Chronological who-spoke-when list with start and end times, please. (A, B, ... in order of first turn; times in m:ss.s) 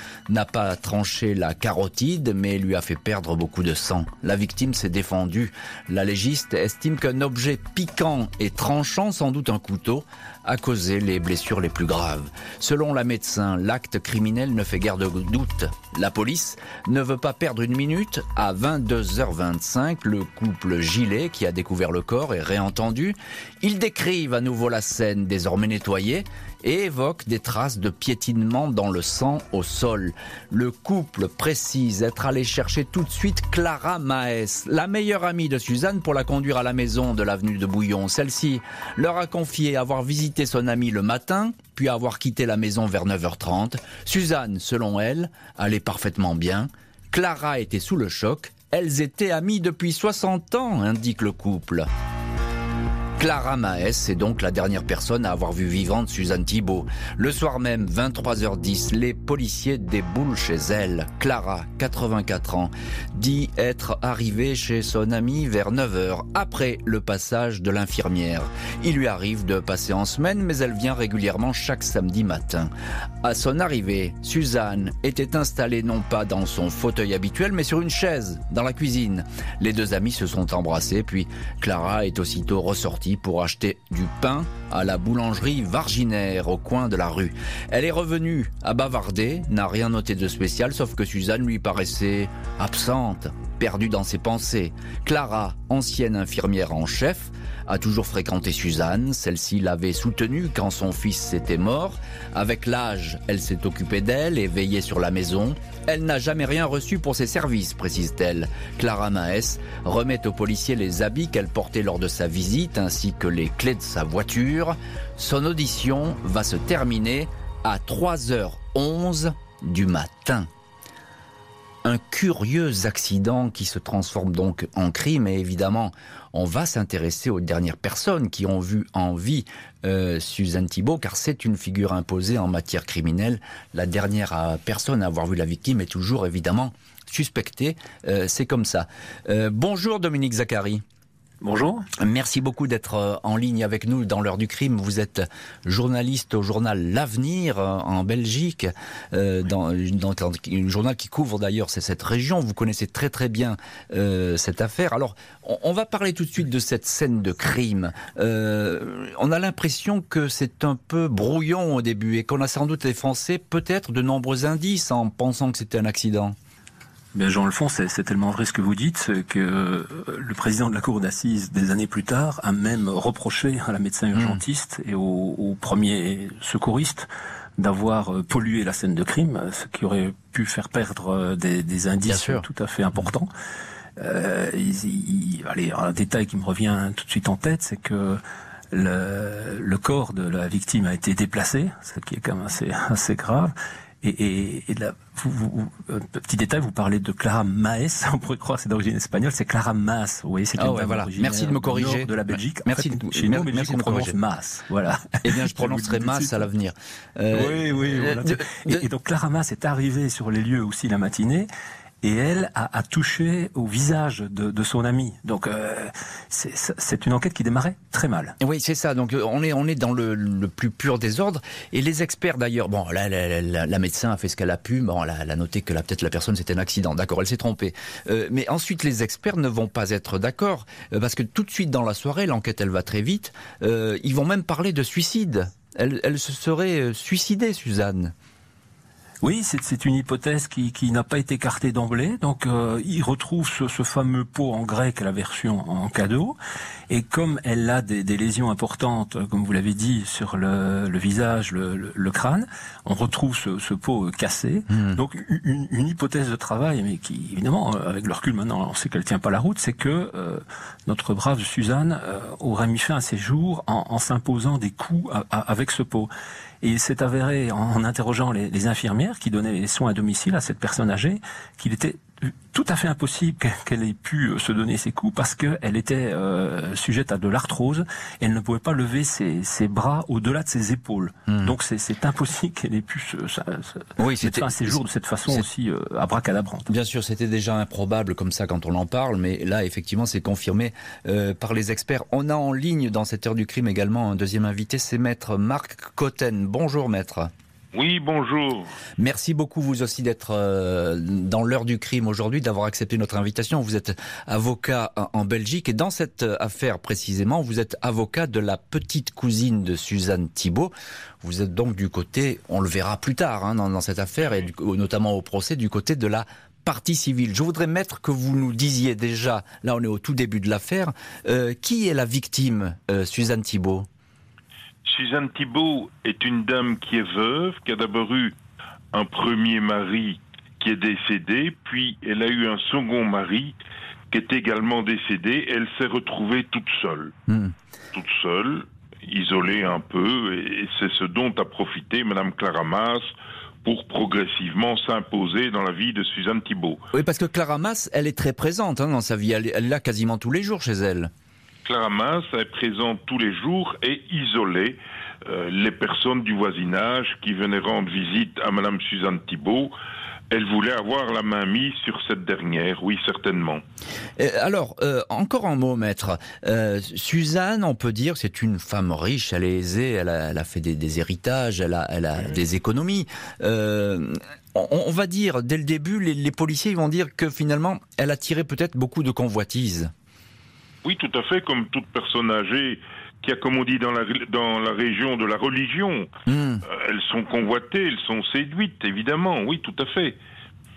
0:00.3-0:51.9 A
0:53.2-1:12.7 A
1:13.2-2:00.5 A
2:01.8-2:20.8 A
2:21.4-2:21.9 B
2:22.0-2:46.4 A
2:47.2-3:03.3 B
2:54.1-2:54.4 A
3:02.1-3:02.5 A
3:04.0-3:08.2 B
3:08.7-3:26.5 B
3:20.6-3:24.2 A
3:25.2-3:28.8 A
3:27.3-3:31.5 B
3:32.0-3:38.4 B
3:38.4-3:58.1 A
3:59.2-4:06.4 B
4:06.9-4:26.1 B
4:14.7-4:15.0 A
4:26.6-4:46.7 B
4:41.3-4:41.5 A
4:44.0-4:45.5 A
4:46.7-4:57.3 A
4:57.7-4:58.7 C
4:59.0-5:23.9 A
5:24.8-5:28.3 C
5:28.9-5:33.6 C
5:34.1-5:37.1 C
5:37.3-5:37.5 A
5:37.9-5:43.1 C
5:43.6-5:46.8 C
5:46.9-5:51.1 A
5:51.6-5:59.7 C
6:00.3-6:03.6 C
6:04.2-6:19.9 A
6:20.8-6:26.1 C
6:26.3-6:26.6 A
6:26.6-6:30.2 C